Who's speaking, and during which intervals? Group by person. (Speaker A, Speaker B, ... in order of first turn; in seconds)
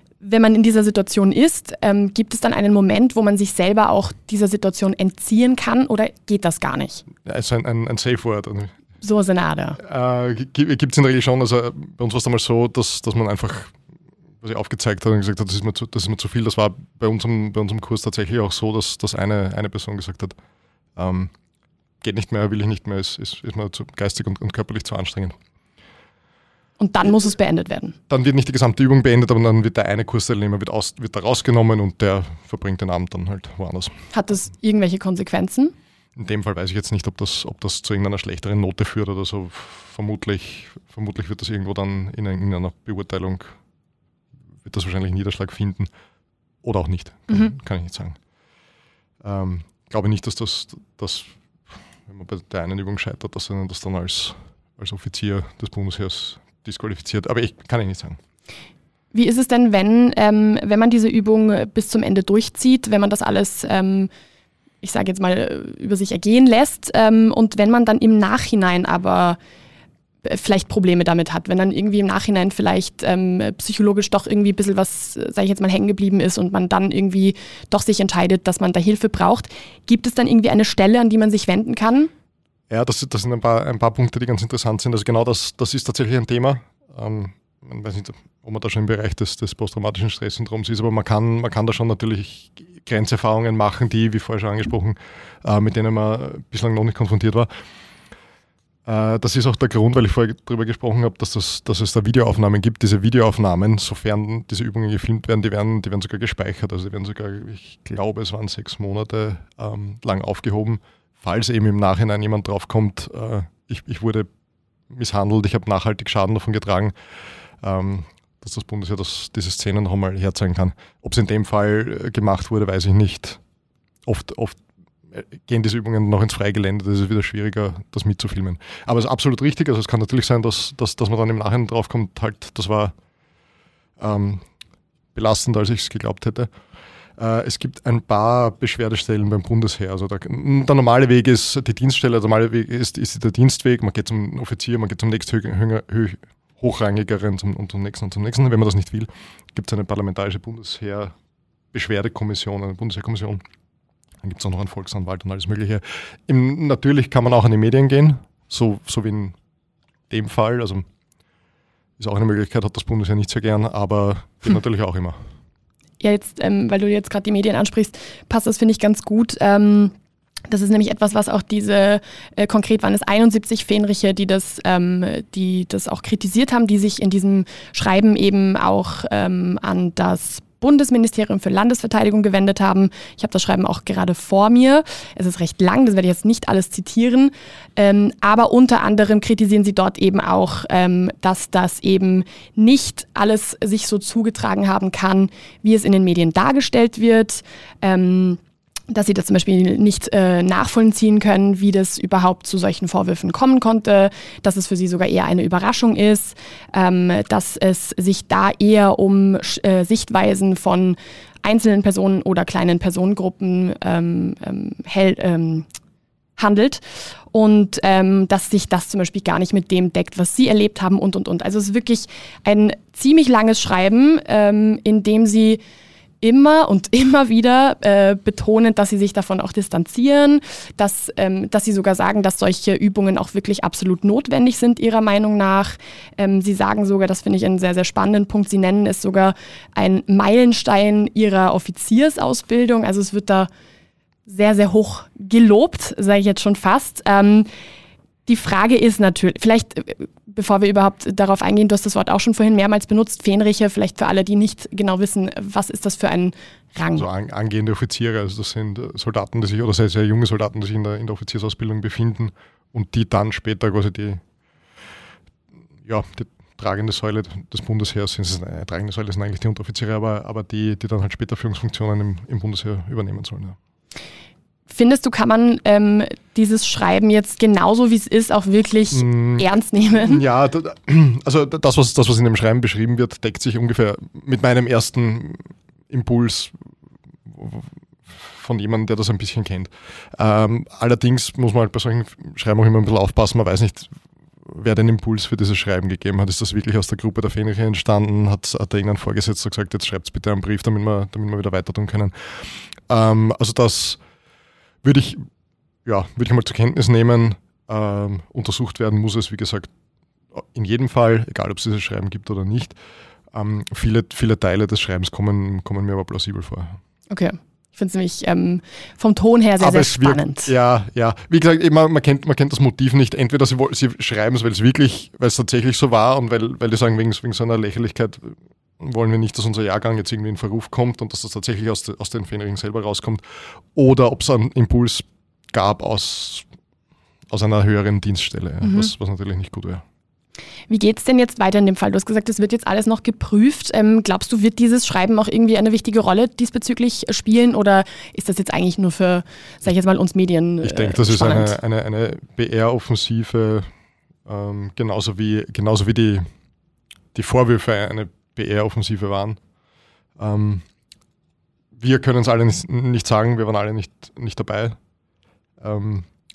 Speaker A: 0.2-7.0, 9.0-9.8, 26.8-28.0, 34.1-35.7, 59.1-64.1, 64.8-69.4, 70.2-82.1, 166.0-169.9, 170.5-215.7, 216.4-225.6, 226.2-243.5, 244.3-247.5, 248.3-257.1, 274.7-280.2, 317.1-320.5, 338.6-338.9, 340.7-351.6
Speaker B: 7.2-8.8, 9.8-13.8, 14.4-20.4, 21.0-21.3, 22.0-25.4, 28.1-34.0, 36.2-43.5, 44.6-45.9, 46.6-48.2, 49.2-51.3, 52.0-58.2, 82.7-97.5, 98.9-114.3, 114.9-116.9, 117.6-123.4, 124.1-124.6, 125.1-132.9, 134.0-134.4, 135.1-136.5, 137.2-151.1, 151.7-153.4, 154.2-159.3, 160.1-160.9, 162.0-165.2, 256.9-264.2, 265.9-273.6, 278.9-286.6, 287.3-293.9, 294.5-302.1, 302.9-304.0, 304.8-305.3, 305.9-309.7, 310.3-312.8, 313.3-316.8, 319.6-333.2, 333.8-336.5, 337.3-339.8, 350.6-353.7, 354.3-356.3, 357.1-359.4, 360.2-360.7, 361.8-364.8, 365.6-366.1